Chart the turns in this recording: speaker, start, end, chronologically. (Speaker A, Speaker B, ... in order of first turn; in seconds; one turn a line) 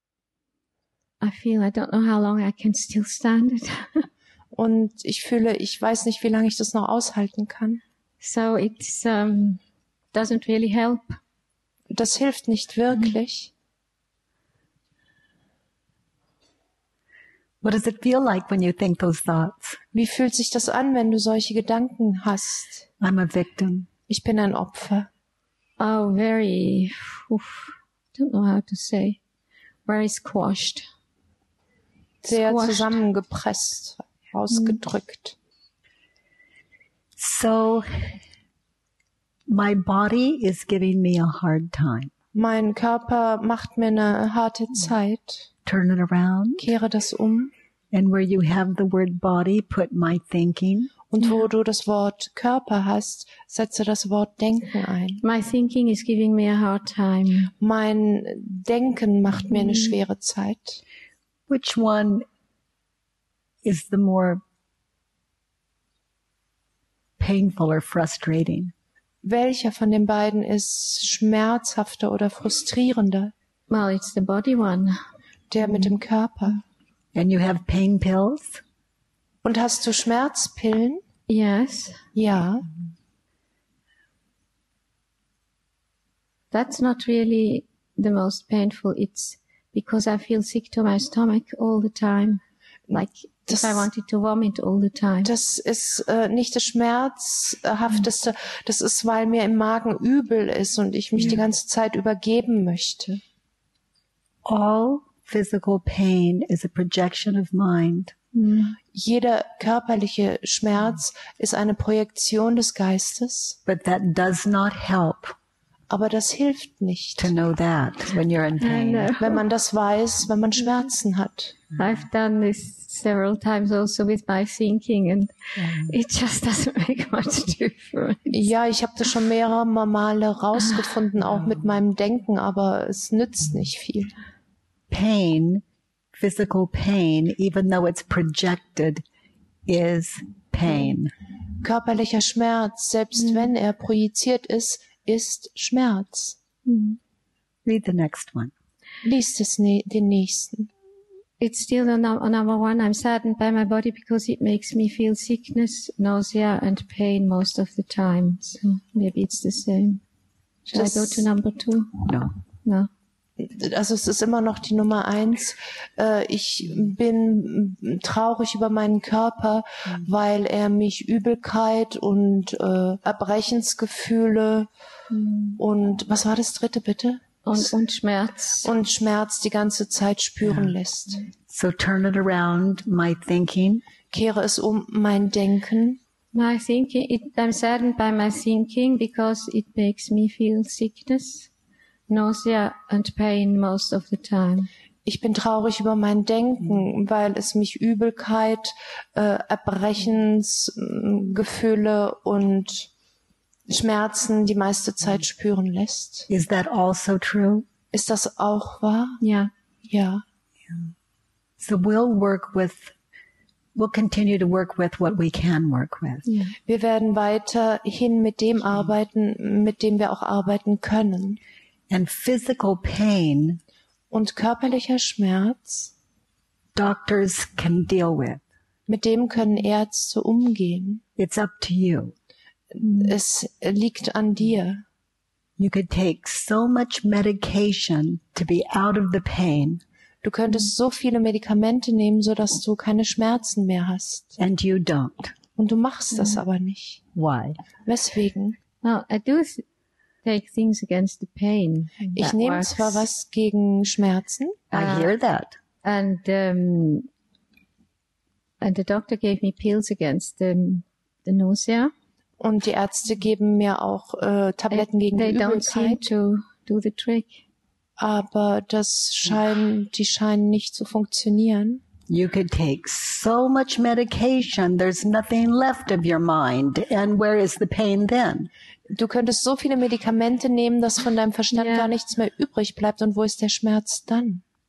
Speaker A: 1.2-4.1
Speaker B: 4.5-7.8
Speaker A: 8.2-9.6
Speaker A: 10.1-11.2
Speaker B: 11.9-13.5
Speaker C: 17.6-19.8
Speaker B: 19.9-22.9
Speaker C: 23.0-23.9
Speaker B: 24.1-25.1
Speaker A: 25.8-29.2
Speaker A: 29.9-30.9
Speaker B: 32.2-35.4
Speaker A: 32.3-33.0
Speaker A: 34.5-34.8
Speaker C: 37.2-38.2
Speaker C: 39.5-42.1
Speaker B: 42.3-45.5
Speaker C: 45.6-46.7
Speaker B: 46.6-47.5
Speaker C: 47.9-50.9
Speaker B: 51.1-55.2
Speaker A: 55.2-57.5
Speaker B: 57.6-60.8
Speaker A: 59.5-59.9
Speaker C: 61.5-62.2
Speaker C: 63.6-64.4
Speaker C: 67.2-68.7
Speaker B: 69.2-73.3
Speaker A: 73.7-75.0
Speaker B: 75.5-76.6
Speaker C: 77.1-78.6
Speaker B: 79.4-81.0
Speaker A: 81.3-82.0
Speaker B: 82.2-82.7
Speaker A: 86.5-95.3
Speaker B: 93.5-93.9
Speaker B: 95.2-103.2
Speaker C: 104.5-108.1
Speaker A: 108.3-108.8
Speaker B: 108.9-113.6
Speaker C: 113.7-115.3
Speaker B: 115.9-117.3
Speaker C: 117.2-119.1
Speaker A: 118.6-119.4
Speaker B: 119.2-121.7
Speaker A: 121.8-128.5
Speaker C: 125.6-126.0
Speaker B: 128.3-134.1
Speaker C: 134.9-135.6
Speaker C: 136.1-139.0
Speaker C: 139.7-141.1
Speaker B: 141.6-146.4
Speaker A: 143.2-143.5
Speaker A: 146.7-147.0
Speaker C: 147.7-148.5
Speaker B: 149.0-150.7
Speaker A: 151.4-160.0
Speaker A: 160.7-162.1
Speaker B: 160.7-161.3
Speaker A: 162.6-162.9
Speaker B: 163.4-174.7
Speaker A: 175.1-175.6
Speaker B: 175.6-177.7
Speaker A: 177.4-178.7
Speaker B: 178.6-181.3
Speaker C: 181.5-183.8
Speaker B: 184.1-186.0
Speaker A: 186.3-191.5
Speaker A: 192.1-194.7
Speaker B: 195.1-202.9
Speaker B: 203.7-206.3
Speaker C: 206.3-207.7
Speaker B: 207.9-209.2
Speaker A: 209.2-209.5
Speaker B: 209.9-210.2
Speaker C: 211.6-212.9
Speaker C: 213.8-216.2
Speaker A: 216.2-216.6
Speaker B: 216.7-221.4
Speaker C: 221.9-223.6
Speaker B: 224.1-225.9
Speaker C: 226.8-228.4
Speaker B: 228.9-231.0
Speaker C: 231.2-232.1
Speaker B: 232.7-234.8
Speaker A: 232.8-233.2
Speaker C: 235.6-239.8
Speaker B: 240.2-244.4
Speaker C: 244.4-245.3
Speaker B: 245.6-247.0
Speaker A: 246.1-246.4
Speaker C: 247.1-247.6
Speaker B: 247.9-248.6
Speaker A: 248.8-249.6
Speaker A: 250.2-253.1
Speaker B: 252.2-254.6
Speaker C: 254.7-255.6
Speaker A: 254.7-255.1
Speaker A: 255.8-257.1
Speaker A: 258.6-261.9
Speaker B: 262.4-266.1
Speaker A: 264.7-267.4
Speaker B: 268.0-271.8
Speaker C: 272.1-278.5
Speaker B: 278.9-284.4
Speaker A: 281.5-281.9